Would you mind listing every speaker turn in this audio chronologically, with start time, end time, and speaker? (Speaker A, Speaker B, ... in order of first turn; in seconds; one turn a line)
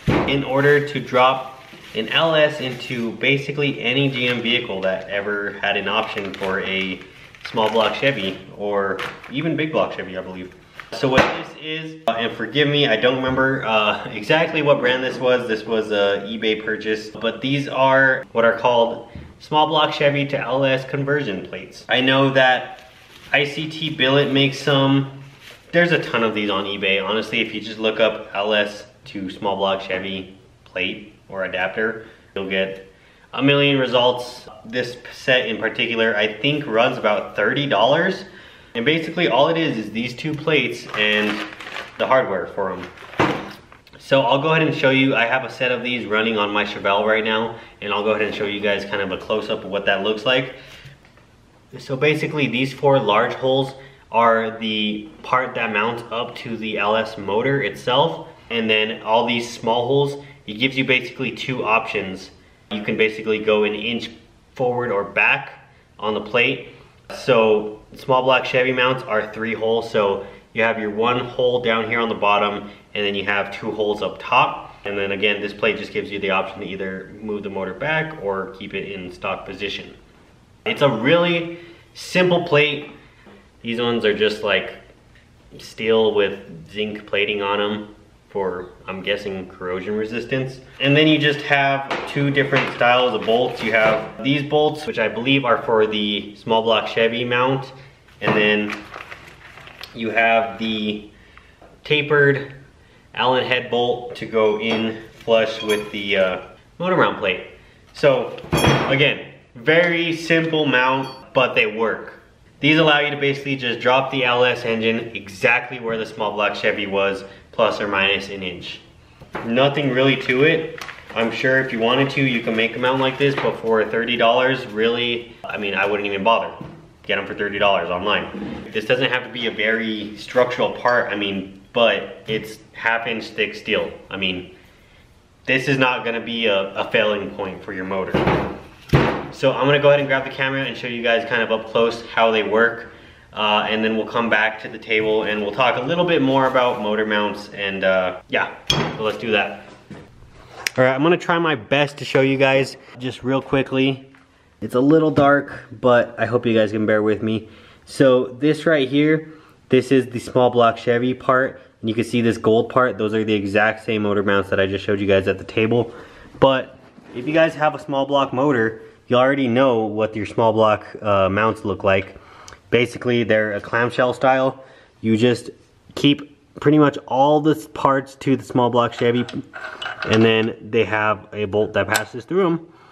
Speaker A: 0.3-25.2
Speaker A: 25.7-41.4
Speaker A: 42.0-42.9
Speaker A: 44.0-50.6
Speaker A: 51.7-80.0
Speaker A: 80.7-82.9
Speaker A: 83.6-84.8
Speaker A: 85.5-98.8
Speaker A: 100.0-101.1
Speaker A: 101.8-102.5
Speaker A: 103.1-118.8
Speaker A: 119.4-134.5
Speaker A: 135.5-138.3
Speaker A: 139.3-149.7
Speaker A: 150.8-154.1
Speaker A: 154.6-172.2
Speaker A: 172.7-179.3
Speaker A: 180.0-182.7